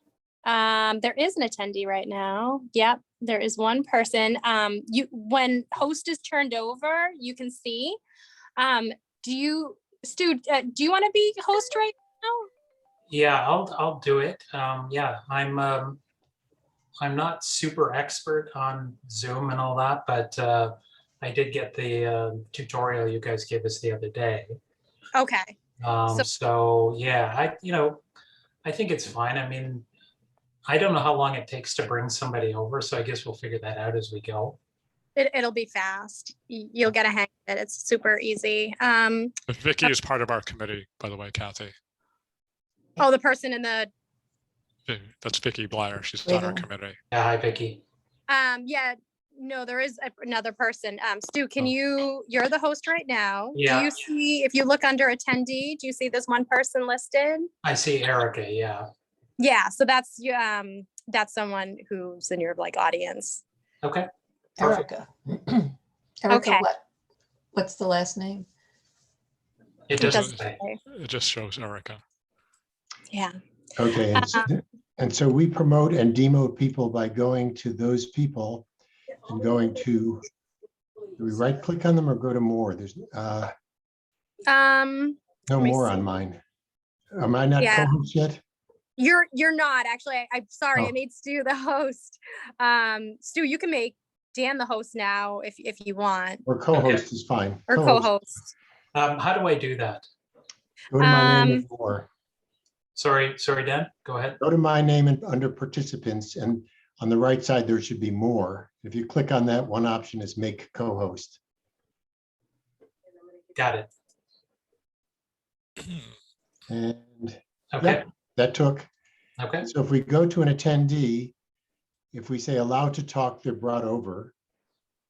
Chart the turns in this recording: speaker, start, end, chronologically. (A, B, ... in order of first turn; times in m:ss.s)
0:00.4-0:08.0 A
0:08.6-0:12.5 A
0:13.1-0:16.0 B
0:17.0-0:24.6 B
0:25.1-0:25.5 A
0:25.8-0:28.0 B
0:28.6-0:29.8 B
0:30.6-0:34.6 B
0:35.2-0:39.9 A
0:39.5-0:41.7 C
0:43.0-0:43.9 A
0:44.9-0:47.0 C
0:46.2-0:46.6 D
0:47.1-0:47.8 B
0:48.3-0:57.5 A
0:53.5-0:53.9 B
0:57.6-0:58.9 B
0:59.4-1:03.4 A
1:04.6-1:06.8 D
1:04.6-1:04.8 B
1:06.3-1:06.7 A
1:07.5-1:08.5 D
1:09.9-1:10.6 B
1:10.0-1:12.0 C
1:10.0-1:10.8 A
1:13.8-1:18.6 E
1:14.1-1:14.5 A
1:19.2-1:20.2 E
1:21.2-1:23.5 E
1:24.4-1:26.0 A
1:25.5-1:26.4 E
1:27.1-1:28.4 E
1:27.6-1:27.9 A
1:29.0-1:36.4 A
1:36.4-1:38.1 E
1:36.7-1:37.0 B
1:37.7-1:38.5 A
1:38.9-1:40.0 B
1:40.9-1:42.1 E
1:41.0-1:41.6 A
1:43.0-1:44.4 B
1:44.4-1:51.4 E
1:53.5-1:53.9 B
1:56.7-1:58.9 E
1:57.7-1:58.0 B
1:59.4-1:59.7 B
1:59.6-2:01.3 E
2:02.1-2:04.3 E